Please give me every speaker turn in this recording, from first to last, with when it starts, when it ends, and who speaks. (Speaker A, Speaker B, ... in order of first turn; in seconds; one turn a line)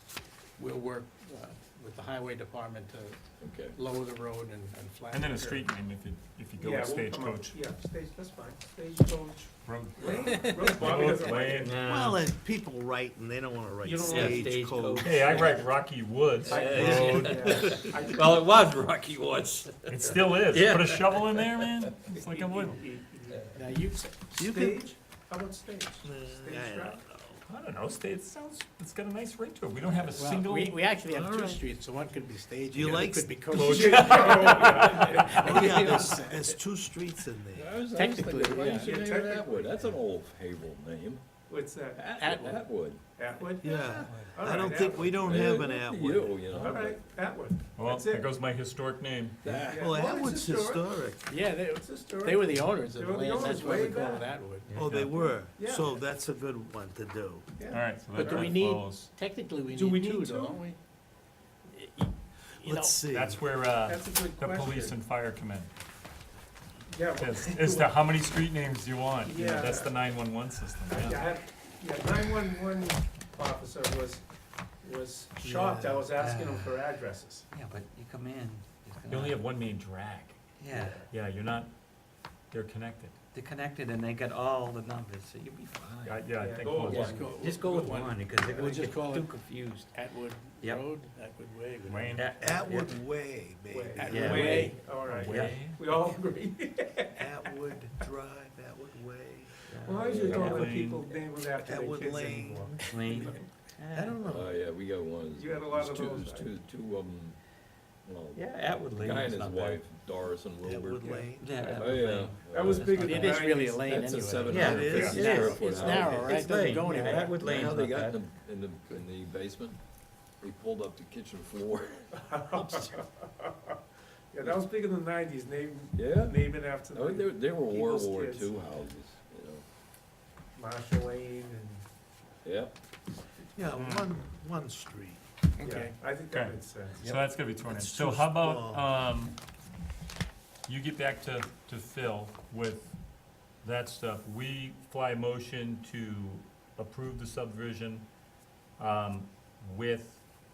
Speaker A: 0.6-3.2
Speaker B: 3.4-3.8
Speaker A: 3.8-5.7
Speaker C: 5.1-7.6
Speaker D: 6.6-11.8
Speaker C: 9.7-11.8
Speaker E: 11.4-12.2
Speaker F: 11.8-15.2
Speaker D: 13.8-14.6
Speaker E: 14.0-15.8
Speaker C: 15.0-17.5
Speaker D: 15.3-15.5
Speaker D: 16.5-18.7
Speaker E: 16.5-21.7
Speaker F: 16.7-17.9
Speaker C: 19.9-22.8
Speaker D: 22.1-23.6
Speaker A: 23.5-24.4
Speaker F: 24.4-24.9
Speaker D: 24.4-27.0
Speaker F: 26.0-27.4
Speaker C: 27.5-30.8
Speaker A: 30.1-36.5
Speaker B: 31.2-31.5
Speaker F: 32.7-33.4
Speaker C: 33.5-35.2
Speaker D: 33.5-36.2
Speaker F: 35.3-37.8
Speaker B: 37.5-41.2
Speaker A: 37.9-38.9
Speaker D: 38.5-39.9
Speaker D: 41.5-42.1
Speaker B: 42.0-43.0
Speaker A: 42.1-42.7
Speaker D: 43.2-45.5
Speaker A: 43.4-43.8
Speaker F: 43.6-46.4
Speaker E: 43.8-44.6
Speaker B: 45.2-47.0
Speaker D: 46.5-48.3
Speaker C: 47.8-49.4
Speaker B: 49.4-49.9
Speaker D: 49.5-50.9
Speaker F: 49.6-51.2
Speaker A: 51.3-54.8
Speaker D: 51.7-54.4
Speaker E: 54.7-55.0
Speaker F: 54.7-57.5
Speaker C: 54.8-55.2
Speaker D: 55.5-55.9
Speaker D: 57.6-58.6
Speaker C: 57.7-59.1
Speaker A: 58.1-60.8
Speaker D: 59.7-60.6
Speaker F: 62.6-63.4
Speaker A: 62.6-63.0
Speaker C: 63.1-65.7
Speaker D: 63.8-65.0
Speaker D: 66.9-68.0
Speaker C: 67.2-71.3
Speaker D: 69.2-70.1
Speaker D: 70.9-74.2
Speaker D: 74.8-77.5
Speaker F: 75.5-76.0
Speaker E: 76.1-76.8
Speaker E: 77.5-79.5
Speaker C: 79.1-80.4
Speaker E: 80.6-81.1
Speaker D: 80.8-81.0
Speaker C: 81.1-81.7
Speaker C: 82.5-83.2
Speaker E: 83.3-86.2
Speaker C: 86.0-87.3
Speaker D: 86.3-87.8
Speaker A: 86.9-89.4
Speaker E: 86.9-89.9
Speaker A: 89.9-92.3
Speaker E: 90.6-90.9
Speaker C: 91.8-92.3
Speaker E: 92.1-93.0
Speaker F: 92.4-94.4
Speaker D: 93.7-97.3
Speaker A: 94.0-94.8
Speaker E: 94.0-96.0
Speaker C: 95.0-95.7
Speaker F: 97.2-99.6
Speaker E: 99.7-101.2
Speaker D: 99.8-103.5
Speaker B: 100.0-100.5
Speaker C: 100.4-100.9
Speaker F: 101.6-102.8
Speaker E: 102.9-104.5
Speaker F: 103.9-104.5
Speaker B: 104.2-107.4
Speaker D: 105.3-106.5
Speaker B: 108.1-113.0
Speaker E: 108.3-109.8
Speaker F: 110.6-111.5
Speaker E: 111.3-113.6
Speaker D: 112.5-114.1
Speaker A: 113.0-114.7
Speaker B: 113.7-119.8
Speaker E: 114.4-118.2
Speaker F: 114.5-116.1
Speaker D: 114.8-115.1
Speaker C: 115.0-115.2
Speaker A: 115.3-117.4
Speaker D: 115.7-116.9
Speaker B: 120.4-123.0
Speaker D: 122.2-123.7
Speaker D: 124.3-128.6
Speaker B: 125.9-129.6
Speaker D: 130.6-131.8
Speaker B: 132.4-132.7
Speaker F: 133.6-135.2
Speaker A: 135.6-135.9
Speaker D: 135.6-137.1
Speaker C: 136.3-139.4
Speaker F: 137.6-138.9
Speaker C: 140.7-143.0
Speaker C: 143.6-148.1
Speaker C: 148.8-150.3